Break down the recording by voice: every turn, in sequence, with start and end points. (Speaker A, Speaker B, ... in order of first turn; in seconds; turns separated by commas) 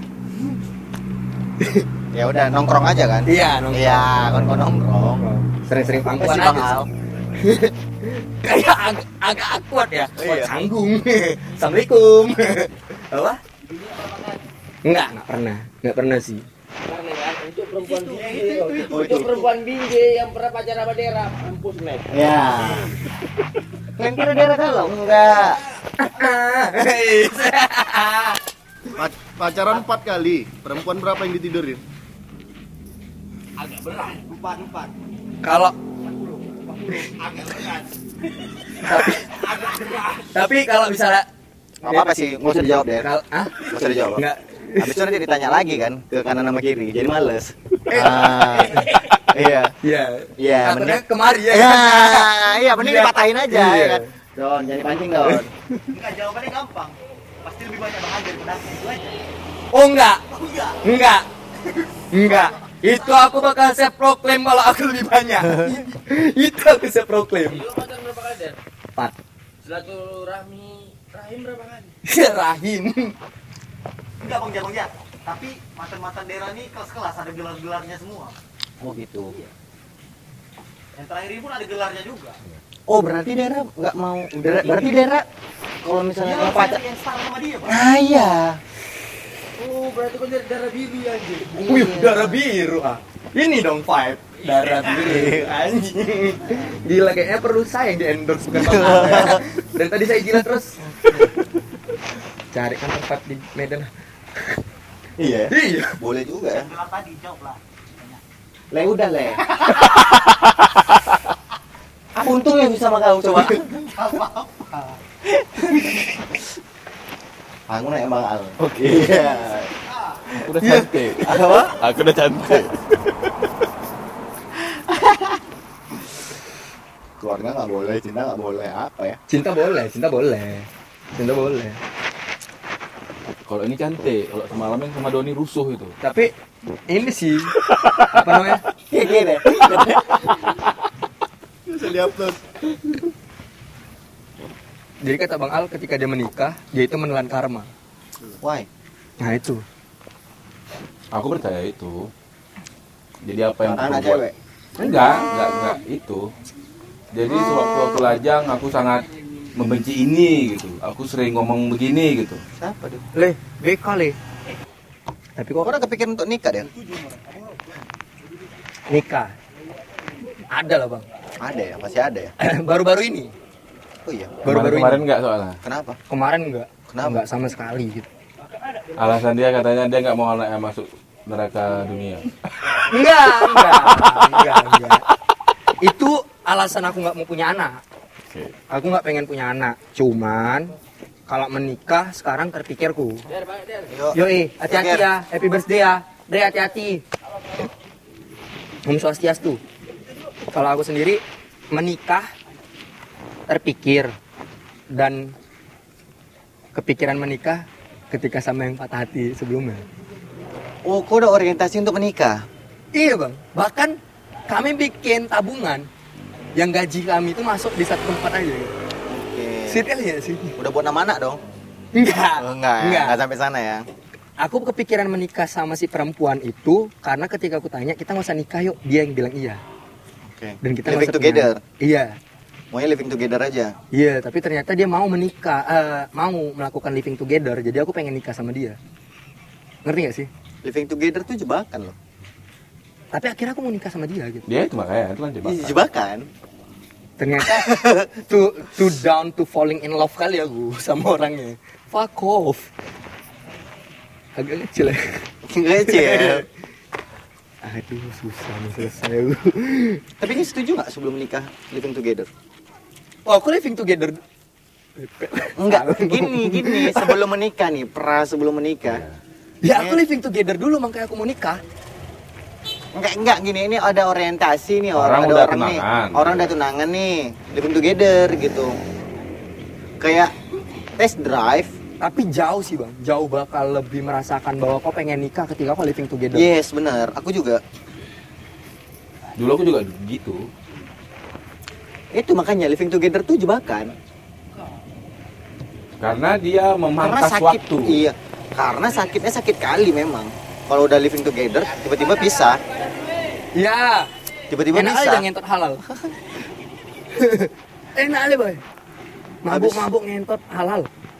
Speaker A: 1.6-1.9, Speaker B: 2.1-5.2, Speaker A: 3.3-6.8, Speaker B: 6.2-6.9, Speaker A: 7.4-13.4, Speaker B: 10.2-10.5, Speaker C: 13.8-14.2, Speaker A: 14.8-16.5, Speaker C: 16.9-22.8, Speaker D: 18.1-19.1, Speaker B: 18.8-19.5, Speaker B: 22.1-22.9, Speaker B: 24.0-25.6, Speaker A: 26.0-28.4, Speaker E: 29.0-31.8, Speaker C: 33.6-34.2, Speaker D: 34.2-34.9, Speaker A: 35.4-35.8, Speaker D: 36.9-37.9, Speaker A: 38.8-39.6, Speaker A: 40.2-41.3, Speaker B: 41.8-43.1, Speaker A: 43.0-45.0, Speaker B: 43.7-44.2, Speaker B: 44.8-49.8, Speaker A: 47.9-49.0, Speaker A: 49.8-54.1, Speaker B: 50.4-55.5, Speaker D: 55.9-59.3, Speaker A: 59.7-60.2, Speaker D: 60.3-60.8, Speaker A: 60.8-61.3, Speaker A: 62.1-67.7, Speaker C: 67.5-68.6, Speaker C: 69.6-71.9, Speaker A: 72.0-73.2, Speaker D: 74.2-78.3, Speaker B: 78.8-79.3, Speaker D: 81.0-82.4, Speaker B: 82.9-85.3, Speaker B: 85.8-86.8, Speaker D: 86.2-87.8, Speaker B: 87.7-88.6, Speaker C: 89.6-91.6, Speaker B: 91.5-92.4, Speaker A: 91.6-100.8, Speaker C: 94.4-95.1, Speaker B: 95.0-95.5, Speaker B: 98.5-99.4, Speaker A: 102.5-104.6, Speaker B: 105.2-106.7, Speaker A: 105.5-106.0, Speaker D: 106.5-108.2, Speaker B: 108.7-109.5, Speaker B: 112.2-113.7, Speaker D: 113.7-115.0, Speaker B: 117.7-119.7, Speaker F: 118.6-119.5, Speaker F: 120.3-123.3, Speaker B: 120.6-121.8, Speaker A: 120.6-120.9, Speaker B: 127.2-129.2, Speaker A: 129.3-131.8, Speaker F: 133.4-135.9, Speaker A: 136.0-136.3, Speaker A: 136.9-138.7, Speaker B: 138.9-140.4, Speaker E: 141.7-142.4, Speaker A: 145.0-147.7, Speaker B: 148.4-148.7, Speaker A: 149.2-149.6, Speaker F: 151.1-152.1, Speaker F: 153.2-154.2, Speaker B: 153.6-154.3, Speaker F: 154.8-156.3, Speaker F: 157.1-162.4, Speaker B: 162.6-163.0, Speaker A: 163.2-164.2, Speaker A: 165.4-165.8, Speaker B: 165.6-166.7, Speaker A: 168.9-169.3, Speaker A: 170.5-171.1, Speaker B: 171.4-172.3, Speaker A: 172.4-173.3, Speaker B: 174.1-174.4, Speaker A: 174.4-175.0, Speaker F: 174.4-175.6, Speaker B: 175.6-176.0, Speaker A: 176.1-178.1, Speaker B: 176.9-177.2, Speaker F: 178.9-182.8, Speaker A: 182.9-185.1, Speaker A: 185.8-187.8, Speaker A: 188.7-190.7, Speaker A: 191.3-193.2, Speaker C: 193.3-193.9, Speaker B: 193.9-195.1, Speaker A: 194.1-197.0, Speaker A: 198.8-199.6, Speaker A: 200.5-202.3, Speaker A: 203.5-204.1, Speaker A: 204.9-205.3, Speaker A: 206.8-209.8, Speaker B: 210.8-212.4, Speaker A: 212.9-214.0, Speaker A: 214.5-215.9, Speaker A: 216.6-218.7, Speaker B: 219.1-219.8, Speaker A: 219.7-220.6, Speaker B: 220.6-221.4, Speaker A: 221.9-223.2, Speaker B: 222.4-223.8, Speaker A: 224.4-229.6, Speaker B: 230.3-231.6, Speaker A: 230.6-232.2, Speaker B: 232.7-233.8, Speaker A: 233.9-238.8, Speaker A: 239.8-240.3, Speaker B: 240.6-242.0, Speaker A: 243.1-244.4, Speaker F: 244.5-245.8, Speaker B: 245.4-246.3, Speaker A: 247.2-252.7, Speaker B: 247.5-248.1, Speaker A: 254.4-255.3, Speaker B: 255.4-256.4, Speaker A: 255.8-256.4, Speaker A: 257.6-260.0, Speaker B: 260.2-262.3, Speaker A: 263.3-264.2, Speaker A: 265.0-267.2, Speaker B: 265.6-269.0, Speaker F: 268.9-269.2, Speaker A: 269.6-271.6, Speaker B: 269.7-270.0, Speaker B: 272.9-278.8, Speaker F: 275.0-276.6, Speaker B: 280.0-280.3, Speaker B: 281.0-281.8, Speaker A: 282.0-286.5, Speaker B: 286.3-287.6, Speaker F: 289.4-290.5, Speaker B: 292.1-293.9, Speaker F: 296.0-298.0, Speaker B: 297.0-302.6, Speaker A: 303.6-304.1, Speaker B: 304.5-305.3, Speaker A: 304.7-305.9, Speaker A: 307.1-308.6, Speaker A: 309.4-310.9, Speaker B: 309.5-309.9